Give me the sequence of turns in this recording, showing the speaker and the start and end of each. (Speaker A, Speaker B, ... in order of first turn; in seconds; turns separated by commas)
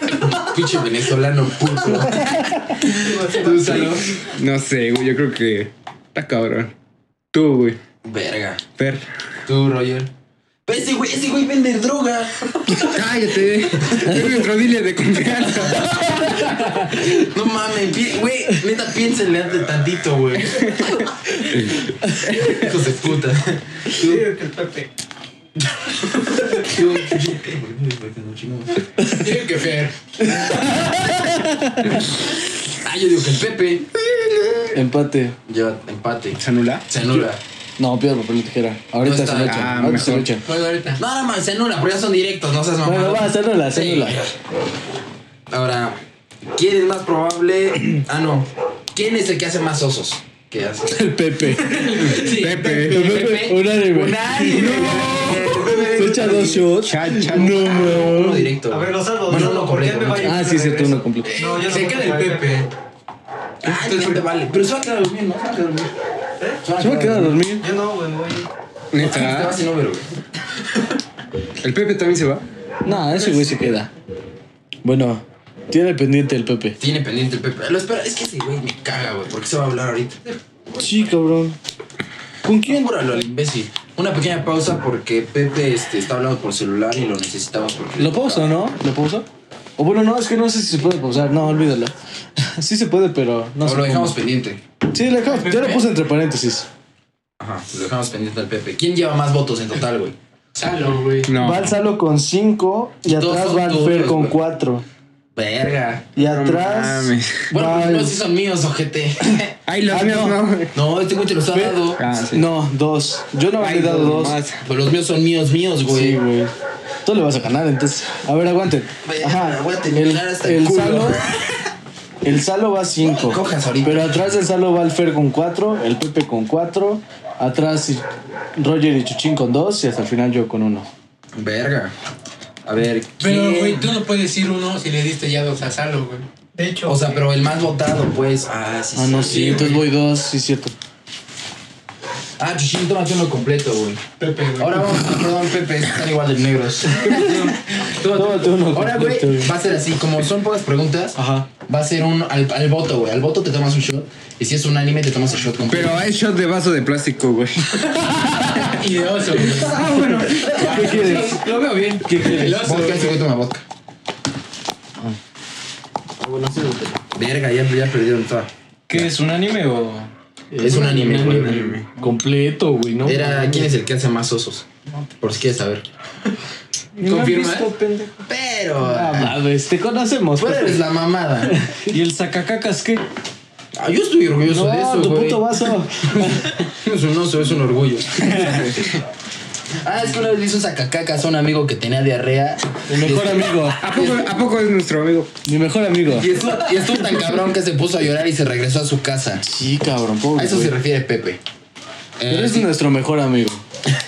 Speaker A: 0.2-4.2, Speaker B: 3.0-4.0, Speaker C: 4.2-6.7, Speaker C: 7.3-7.8, Speaker A: 8.0-8.6, Speaker C: 8.8-9.1, Speaker A: 9.5-10.1, Speaker A: 10.7-14.2, Speaker C: 12.7-15.8, Speaker A: 16.5-20.9, Speaker C: 21.5-21.8, Speaker A: 22.3-24.2, Speaker B: 24.0-24.9, Speaker A: 26.4-28.9, Speaker D: 29.0-29.9, Speaker E: 30.3-32.0, Speaker A: 32.8-34.8, Speaker E: 34.7-35.4, Speaker A: 35.5-37.4, Speaker C: 36.3-36.9, Speaker E: 37.8-40.4, Speaker A: 39.0-40.1, Speaker C: 39.4-40.3, Speaker D: 40.4-41.0, Speaker A: 41.0-44.3, Speaker E: 42.8-44.2, Speaker A: 45.5-46.0, Speaker A: 46.5-51.1, Speaker E: 50.9-51.9, Speaker D: 51.7-53.7, Speaker C: 51.9-53.3, Speaker E: 52.7-55.0, Speaker A: 53.5-60.4, Speaker C: 54.5-57.6, Speaker E: 55.9-58.6, Speaker B: 58.6-62.7, Speaker E: 60.1-61.4, Speaker A: 61.3-61.7, Speaker D: 61.4-62.7, Speaker A: 63.6-65.9, Speaker D: 63.6-64.2, Speaker A: 66.6-67.4, Speaker E: 66.8-67.7, Speaker B: 67.5-68.5, Speaker C: 68.9-69.6, Speaker A: 69.0-70.1, Speaker C: 71.6-72.4, Speaker E: 72.8-73.9, Speaker E: 74.8-76.8, Speaker A: 76.8-80.2, Speaker E: 80.8-81.6, Speaker E: 82.4-82.9, Speaker A: 82.6-88.5, Speaker E: 88.0-89.3, Speaker E: 89.8-94.2, Speaker A: 93.6-94.6, Speaker E: 94.9-96.7, Speaker D: 95.2-95.8, Speaker A: 97.4-100.1, Speaker D: 100.5-101.3, Speaker C: 101.3-101.8, Speaker E: 101.3-104.8, Speaker A: 103.0-104.4, Speaker A: 105.3-106.1, Speaker E: 106.2-108.2, Speaker C: 106.3-107.5, Speaker A: 107.5-109.5, Speaker C: 109.7-110.7, Speaker E: 109.9-110.4, Speaker A: 110.7-112.0, Speaker E: 111.5-114.4, Speaker C: 112.0-112.5, Speaker C: 113.5-114.6, Speaker A: 114.6-116.2, Speaker E: 115.9-116.5, Speaker E: 117.0-121.2, Speaker A: 119.0-121.3, Speaker E: 122.2-130.9, Speaker A: 123.0-124.3, Speaker A: 131.3-131.9, Speaker A: 132.6-134.0, Speaker D: 133.2-136.3, Speaker B: 136.5-137.3, Speaker A: 136.8-139.8, Speaker E: 138.9-140.7, Speaker D: 139.4-139.7, Speaker A: 142.4-144.0, Speaker D: 144.2-144.8, Speaker A: 144.6-156.0, Speaker E: 147.0-147.4, Speaker E: 148.1-149.5, Speaker E: 151.2-151.5, Speaker C: 155.6-158.2, Speaker D: 158.5-163.3, Speaker C: 159.6-160.6, Speaker E: 159.9-161.4, Speaker F: 160.5-162.1, Speaker E: 162.0-162.7, Speaker A: 162.4-163.6, Speaker E: 166.2-167.0, Speaker A: 167.1-169.1, Speaker F: 168.9-170.1, Speaker E: 170.5-173.7, Speaker A: 170.6-171.8, Speaker C: 171.1-171.8, Speaker A: 173.0-174.7, Speaker A: 175.2-175.8, Speaker E: 177.0-178.2, Speaker D: 177.0-177.7, Speaker A: 178.2-179.4, Speaker E: 178.8-180.8, Speaker A: 180.3-181.6, Speaker E: 181.5-181.9, Speaker F: 181.9-183.0, Speaker A: 183.7-185.4, Speaker E: 184.5-186.5, Speaker A: 186.1-189.0, Speaker C: 188.3-188.8, Speaker A: 189.8-194.3, Speaker E: 192.9-193.8, Speaker C: 193.8-195.3, Speaker E: 195.4-196.3, Speaker A: 196.1-199.5, Speaker E: 199.4-200.7, Speaker A: 200.3-201.4, Speaker A: 202.2-202.7, Speaker E: 202.3-203.6